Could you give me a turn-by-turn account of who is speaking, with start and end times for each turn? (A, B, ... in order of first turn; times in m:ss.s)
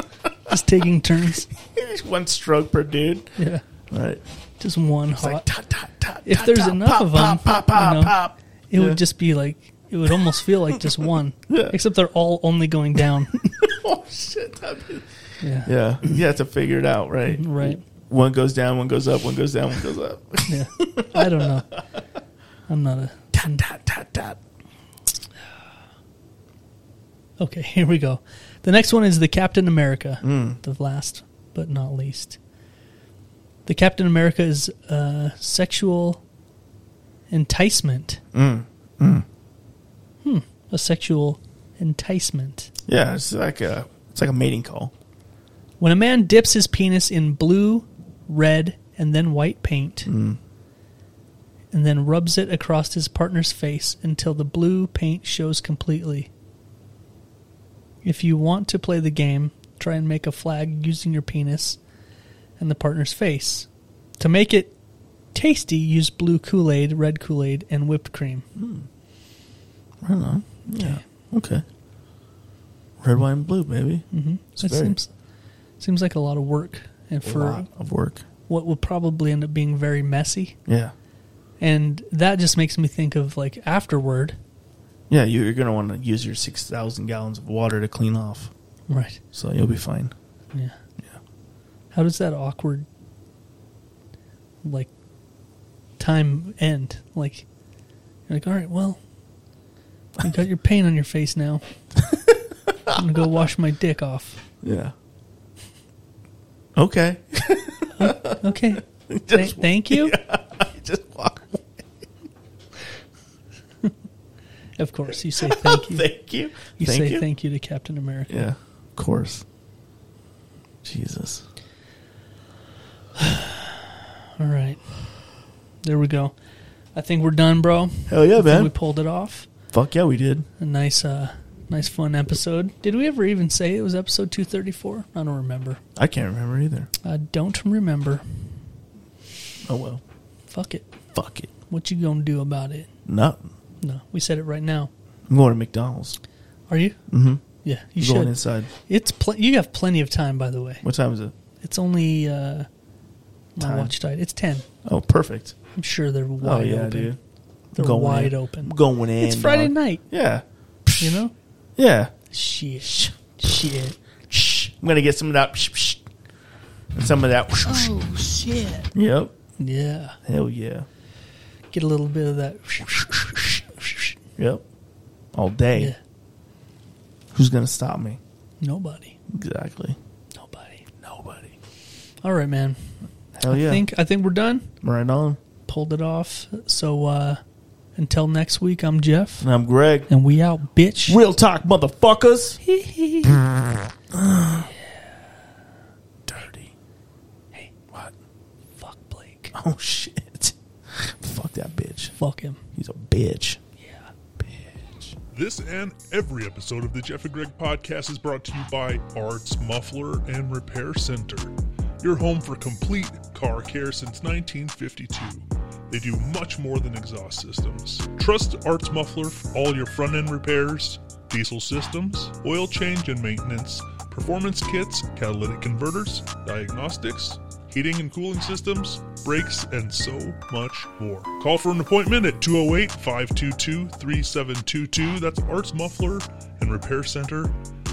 0:00.5-0:01.5 A
0:01.6-0:03.4 B
0:03.4-0:03.6 A
0:03.9-0:04.2 B
0:04.6-0:05.4 A
0:05.1-0:09.0 B
0:06.2-0:13.4 A
0:11.5-0:11.8 B
0:13.6-0:15.1 B
0:15.4-0:15.7 A
0:15.6-0:21.8 B
0:17.3-0:17.8 A
0:20.5-0:21.8 A
0:22.7-0:23.6 A
0:23.3-0:24.4 B
0:27.4-0:32.4 A
0:30.2-0:30.6 B
0:33.6-0:36.2 A
0:37.3-0:38.2 A
0:38.3-0:39.2 B
0:40.2-0:42.7 A
0:42.9-0:44.9 B
0:45.8-0:50.1 A
0:50.0-0:50.4 B
0:51.7-0:56.3 A
0:58.0-1:01.8 A
1:02.6-1:03.7 A
1:04.2-1:04.7 A
1:05.3-1:08.4 A
1:08.6-1:08.9 B
1:10.0-1:11.6 B
1:10.7-1:11.0 A
1:13.0-1:15.0 B
1:14.1-1:15.1 A
1:15.8-1:17.7 A
1:17.2-1:18.2 B
1:18.5-1:20.6 A
1:20.7-1:20.9 B
1:21.6-1:24.4 A
1:25.1-1:28.5 B
1:28.9-1:29.2 A
1:29.3-1:30.1 B
1:31.9-1:32.8 A
1:34.6-1:34.9 A
1:36.0-1:37.5 A
1:38.3-1:39.0 A
1:40.2-1:41.6 A
1:42.9-1:44.4 A
1:44.6-1:44.9 B
1:46.8-1:51.6 B
1:48.0-1:50.2 A
1:54.8-1:56.1 A
1:55.4-1:57.2 B
1:56.8-1:58.5 A
1:58.3-1:59.4 B
2:00.8-2:01.4 B
2:03.2-2:04.9 A
2:05.8-2:06.3 A
2:06.9-2:09.5 A
2:08.1-2:08.7 B
2:09.7-2:10.5 B
2:10.6-2:15.8 A
2:16.0-2:16.9 B
2:17.0-2:18.2 A
2:19.6-2:20.0 B
2:20.5-2:20.9 A
2:21.1-2:21.5 B
2:21.7-2:22.9 A
2:23.0-2:23.5 B
2:23.8-2:24.9 A
2:25.3-2:26.2 B
2:26.7-2:27.0 A
2:27.1-2:27.4 B
2:27.6-2:28.3 A
2:28.0-2:28.7 B
2:28.8-2:30.8 A
2:30.8-2:31.3 B
2:31.6-2:32.7 A
2:33.6-2:34.6 A
2:33.6-2:33.9 B
2:34.8-2:35.6 B
2:35.7-2:37.1 A
2:36.4-2:37.2 B
2:37.7-2:40.0 A
2:37.7-2:41.2 B
2:41.0-2:41.3 A
2:41.8-2:42.1 B
2:42.3-2:44.0 A
2:42.8-2:43.5 B
2:44.3-2:46.0 B
2:46.9-2:48.0 B
2:47.6-2:48.9 A
2:48.9-2:49.3 B
2:49.6-2:50.2 A
2:50.2-2:50.9 B
2:51.7-2:54.1 A
2:54.4-2:54.6 B
2:55.3-2:55.9 B
2:57.3-2:58.2 B
2:58.6-2:59.2 A
2:59.3-3:00.0 B
3:00.3-3:00.9 A
3:01.0-3:01.5 B
3:02.2-3:02.8 A
3:03.3-3:03.8 B
3:03.5-3:04.7 A
3:04.8-3:05.4 B
3:05.7-3:07.4 A
3:08.0-3:09.4 A
3:09.4-3:10.1 B
3:10.1-3:11.2 A
3:11.1-3:12.6 B
3:12.6-3:13.4 A
3:14.1-3:14.7 B
3:16.2-3:16.7 B
3:18.8-3:19.5 A
3:19.5-3:22.1 B
3:22.2-3:22.6 A
3:22.7-3:23.6 B
3:23.8-3:24.1 A
3:24.4-3:25.1 B
3:25.3-3:57.5 C